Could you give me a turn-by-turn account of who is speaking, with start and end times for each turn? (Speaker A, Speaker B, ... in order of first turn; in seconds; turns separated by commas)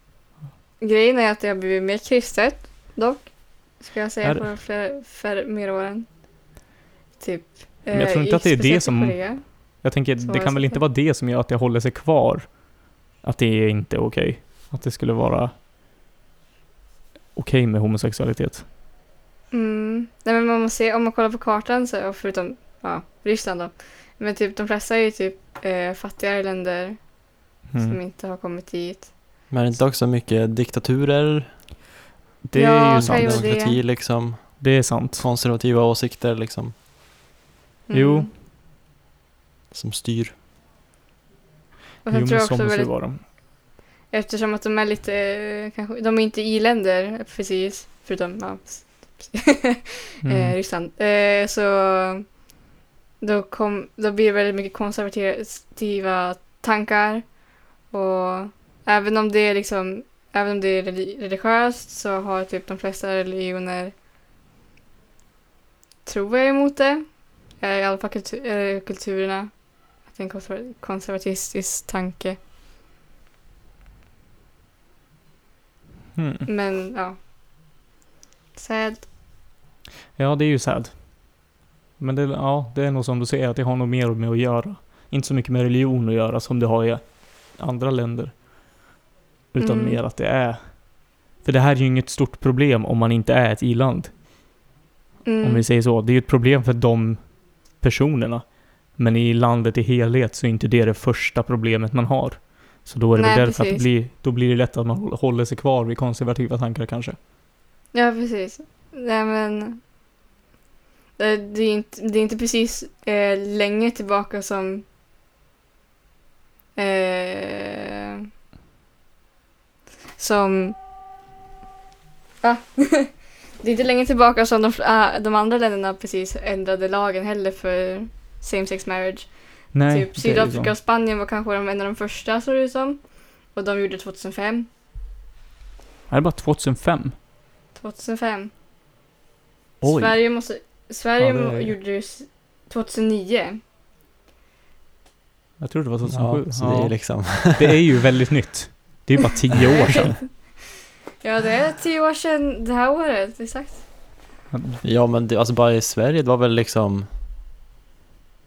Speaker A: 0.8-6.1, Speaker B: 4.2-4.5, Speaker A: 7.2-9.4, Speaker B: 7.9-12.6, Speaker A: 10.2-10.8, Speaker B: 13.2-15.5, Speaker B: 17.4-18.6, Speaker A: 19.5-27.0, Speaker B: 27.7-28.0, Speaker A: 27.8-29.1, Speaker C: 29.5-31.6, Speaker B: 32.4-33.5, Speaker A: 32.5-33.8, Speaker C: 32.9-36.7, Speaker B: 34.6-35.3, Speaker A: 37.9-38.3, Speaker B: 37.9-38.3, Speaker C: 39.7-40.3, Speaker A: 42.0-43.0, Speaker B: 42.1-43.2, Speaker A: 44.1-52.3, Speaker B: 50.2-50.6, Speaker A: 53.2-57.4, Speaker A: 57.9-63.9, Speaker A: 66.1-69.5, Speaker A: 70.1-72.4, Speaker B: 76.2-76.5, Speaker A: 76.5-77.2, Speaker A: 78.5-79.1, Speaker B: 80.2-81.1, Speaker B: 82.0-88.3, Speaker B: 89.5-90.8, Speaker A: 89.6-90.0, Speaker B: 91.4-94.1, Speaker A: 95.2-95.6, Speaker B: 95.4-107.2, Speaker A: 103.2-103.9, Speaker A: 107.9-109.8, Speaker A: 111.2-114.8, Speaker A: 116.8-118.2, Speaker A: 120.2-120.8, Speaker A: 122.4-133.0, Speaker B: 129.7-130.7, Speaker A: 133.5-134.7, Speaker B: 136.1-137.2, Speaker A: 137.8-138.5, Speaker B: 139.8-140.2, Speaker A: 139.8-143.6, Speaker B: 141.2-141.8, Speaker B: 145.6-150.2, Speaker C: 146.1-147.8, Speaker A: 149.6-150.3, Speaker A: 151.2-153.8, Speaker B: 154.5-154.8, Speaker C: 154.8-157.1